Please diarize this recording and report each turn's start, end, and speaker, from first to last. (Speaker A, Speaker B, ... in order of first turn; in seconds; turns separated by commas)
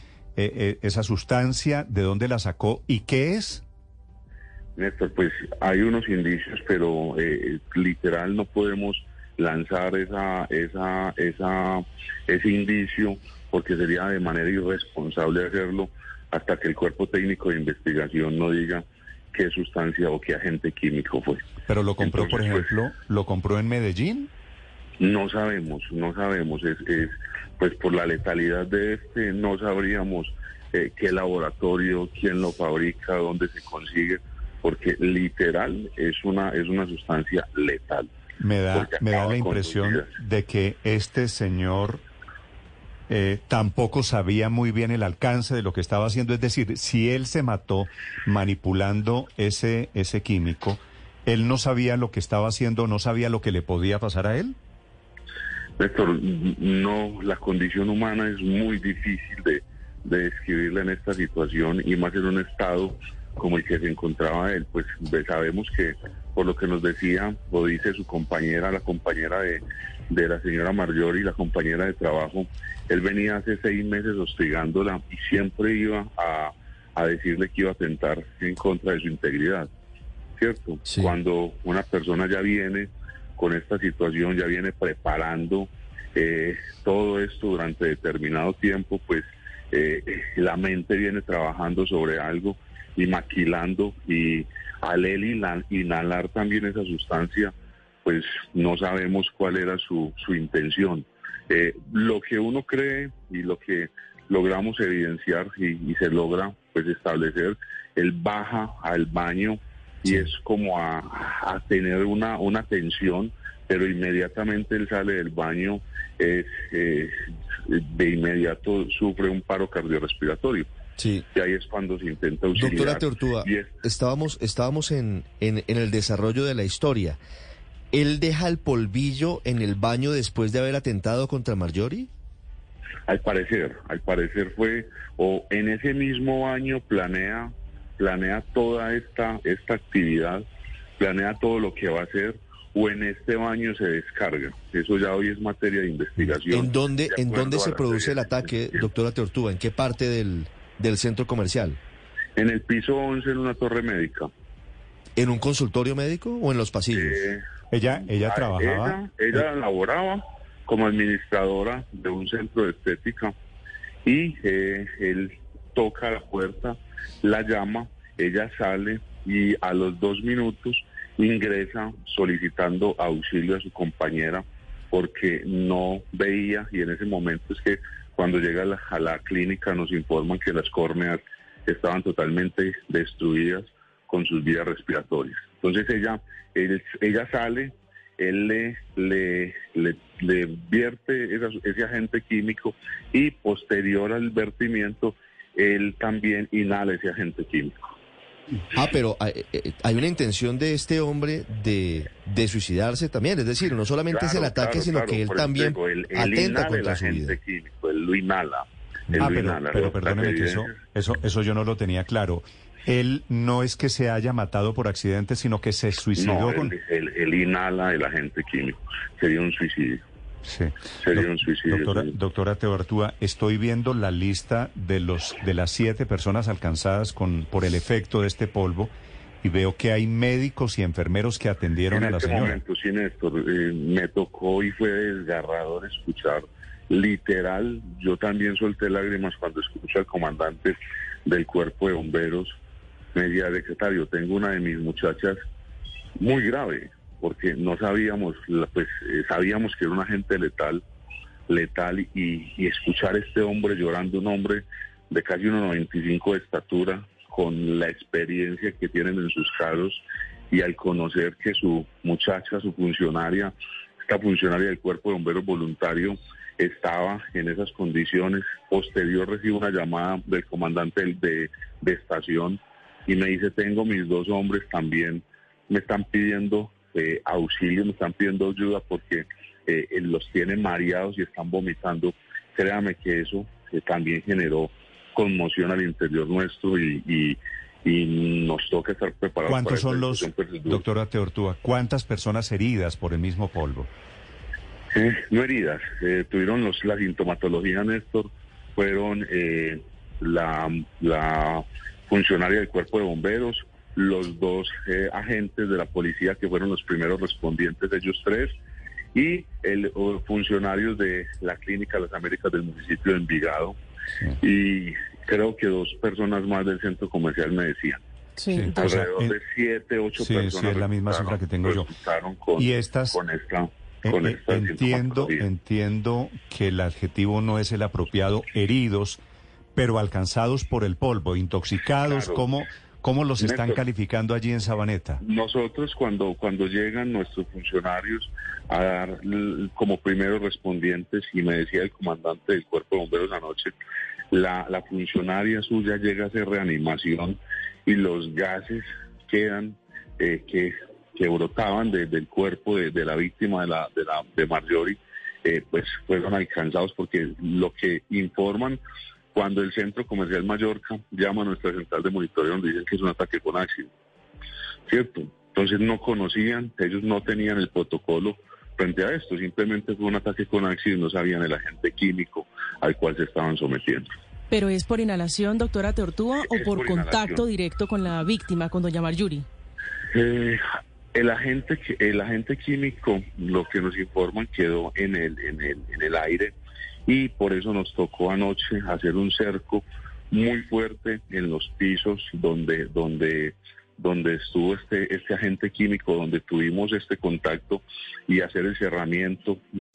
Speaker A: 0.3-3.6, Speaker B: 4.8-21.5, Speaker A: 21.6-24.3, Speaker B: 22.0-22.7, Speaker B: 25.0-38.1, Speaker A: 38.4-42.0, Speaker B: 38.7-40.1, Speaker A: 43.1-54.5, Speaker B: 55.8-79.7, Speaker B: 80.4-97.5, Speaker C: 80.8-81.1, Speaker B: 98.0-117.1, Speaker B: 117.7-120.7, Speaker C: 121.0-121.2, Speaker B: 121.3-123.7, Speaker C: 122.5-127.2, Speaker C: 127.9-132.1, Speaker B: 133.1-140.4, Speaker B: 141.0-148.9, Speaker C: 146.5-151.8, Speaker B: 152.3-154.3, Speaker C: 155.2-157.2, Speaker B: 156.9-157.4, Speaker A: 157.7-159.4, Speaker B: 158.1-163.3, Speaker B: 164.0-197.9, Speaker C: 198.7-207.4, Speaker B: 204.1-210.8, Speaker C: 209.1-209.4, Speaker A: 209.2-216.7, Speaker B: 216.1-220.0, Speaker A: 220.4-232.6, Speaker B: 221.0-222.1, Speaker B: 231.9-242.6, Speaker B: 243.1-245.4, Speaker B: 246.2-250.8, Speaker B: 251.5-263.5, Speaker B: 264.0-290.8, Speaker A: 289.5-293.9, Speaker B: 294.9-308.5, Speaker B: 309.1-313.8, Speaker B: 314.4-318.0, Speaker A: 318.5-319.4, Speaker B: 318.7-325.5, Speaker A: 320.2-321.9, Speaker A: 322.6-323.2, Speaker A: 324.0-329.2, Speaker A: 329.8-335.2, Speaker B: 332.0-332.4, Speaker B: 333.4-333.8, Speaker B: 335.2-343.7, Speaker B: 344.3-358.8, Speaker B: 359.3-363.9, Speaker B: 364.9-374.1, Speaker D: 374.5-379.4, Speaker B: 376.4-377.4, Speaker B: 380.1-380.6, Speaker B: 381.1-386.5, Speaker B: 387.1-399.6